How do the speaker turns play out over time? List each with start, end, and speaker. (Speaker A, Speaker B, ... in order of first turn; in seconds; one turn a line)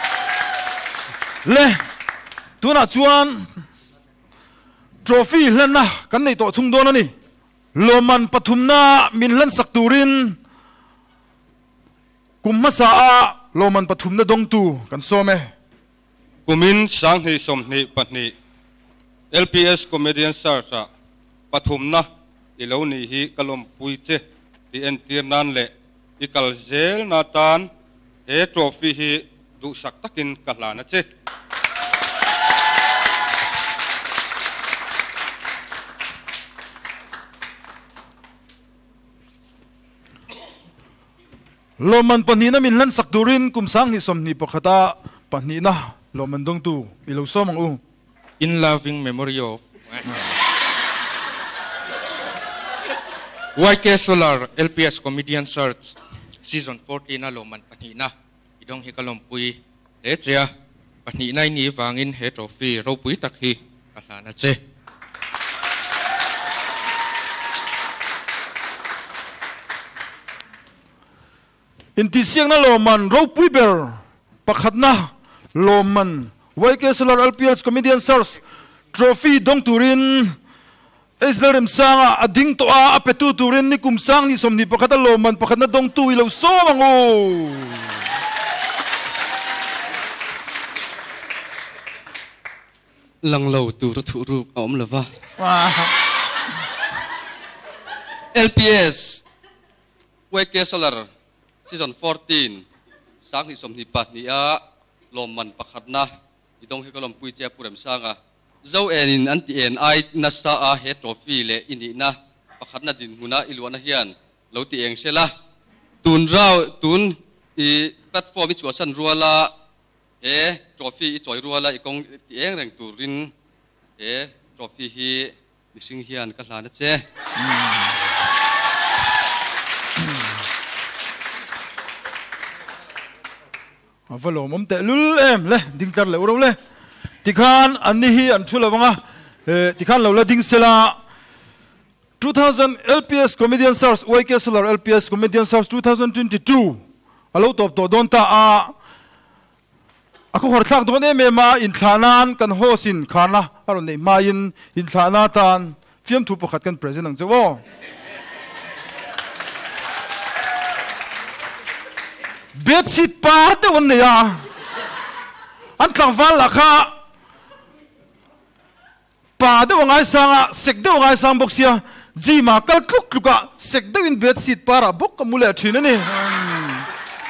Speaker A: 1.4-1.8
Speaker A: 2.6-3.5
Speaker A: 5.0-7.1
Speaker A: 7.7-10.4
Speaker A: 12.4-15.5
Speaker B: 16.4-18.3
Speaker B: 19.3-20.9
Speaker B: 21.5-22.1
Speaker B: 22.6-27.7
Speaker B: 28.3-31.1
Speaker A: 41.8-47.8
Speaker C: 48.4-50.2
Speaker C: 53.5-60.5
Speaker C: 61.0-64.6
Speaker A: 72.0-78.4
Speaker A: 78.9-80.4
Speaker A: 81.2-88.0
Speaker D: 93.2-95.1
Speaker A: 95.4-96.0
Speaker D: 98.3-99.2
Speaker D: 100.3-101.0
Speaker D: 101.7-102.6
Speaker D: 103.3-104.6
Speaker D: 105.1-106.1
Speaker D: 106.6-115.3
Speaker D: 116.0-119.5
Speaker D: 120.2-123.3
Speaker D: 124.0-127.0
Speaker A: 127.4-127.9
Speaker A: 134.1-136.6
Speaker A: 137.2-141.0
Speaker A: 142.2-146.8
Speaker A: 147.3-148.7
Speaker A: 150.3-157.6
Speaker A: 162.5-164.5
Speaker A: 165.8-166.9
Speaker A: 169.4-176.9